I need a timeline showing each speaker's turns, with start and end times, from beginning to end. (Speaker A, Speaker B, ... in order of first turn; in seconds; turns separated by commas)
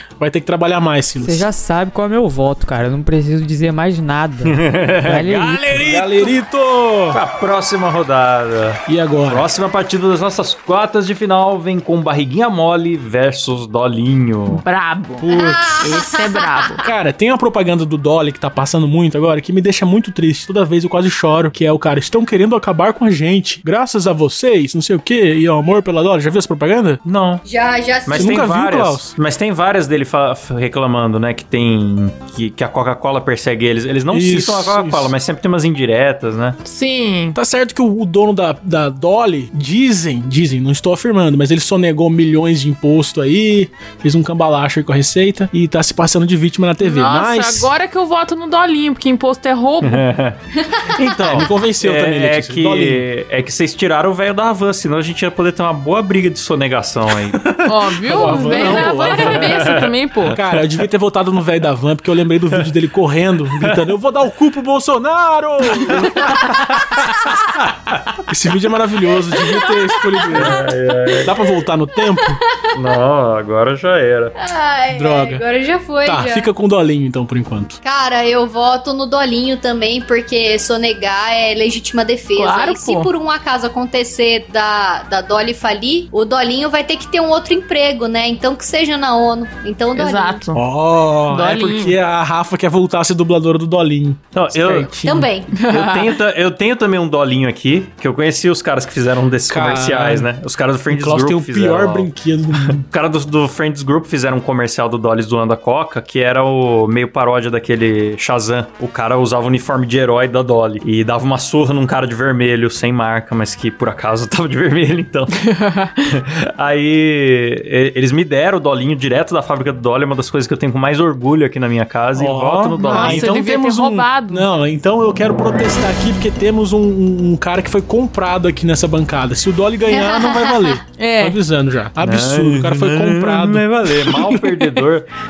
Speaker A: 0.2-1.5, Speaker B: 1.2-5.8, Speaker C: 4.4-6.3, Speaker A: 5.7-7.2, Speaker C: 7.1-14.6, Speaker A: 8.9-9.5, Speaker D: 14.5-16.9, Speaker A: 15.2-15.8, Speaker E: 15.3-16.1, Speaker A: 16.8-27.0, Speaker C: 27.1-27.4, Speaker E: 27.5-28.4, Speaker C: 28.1-36.6, Speaker A: 28.1-29.1, Speaker A: 34.1-35.1, Speaker D: 36.6-37.4, Speaker A: 37.4-47.7, Speaker D: 46.8-50.0, Speaker C: 49.8-57.5, Speaker A: 51.3-53.0, Speaker A: 57.4-66.6, Speaker D: 57.6-60.5, Speaker C: 58.2-60.8, Speaker C: 65.8-68.2, Speaker A: 68.3-70.7, Speaker E: 69.4-70.4, Speaker C: 70.3-71.3, Speaker A: 71.2-72.4, Speaker E: 72.0-72.6, Speaker C: 72.7-74.3, Speaker E: 74.4-76.5, Speaker A: 74.9-75.4, Speaker A: 76.0-77.8, Speaker E: 77.8-90.4, Speaker D: 82.4-83.1, Speaker D: 90.0-90.6, Speaker A: 90.5-95.3, Speaker D: 91.3-92.0, Speaker C: 94.3-94.9, Speaker E: 95.0-95.5, Speaker D: 95.6-96.1, Speaker C: 95.6-102.1, Speaker A: 99.5-100.3, Speaker A: 100.9-102.8, Speaker C: 102.6-115.5, Speaker D: 115.5-115.9, Speaker C: 116.1-123.3, Speaker A: 122.2-134.8, Speaker D: 122.8-124.5, Speaker E: 129.9-130.8, Speaker D: 130.9-131.4, Speaker C: 132.0-135.1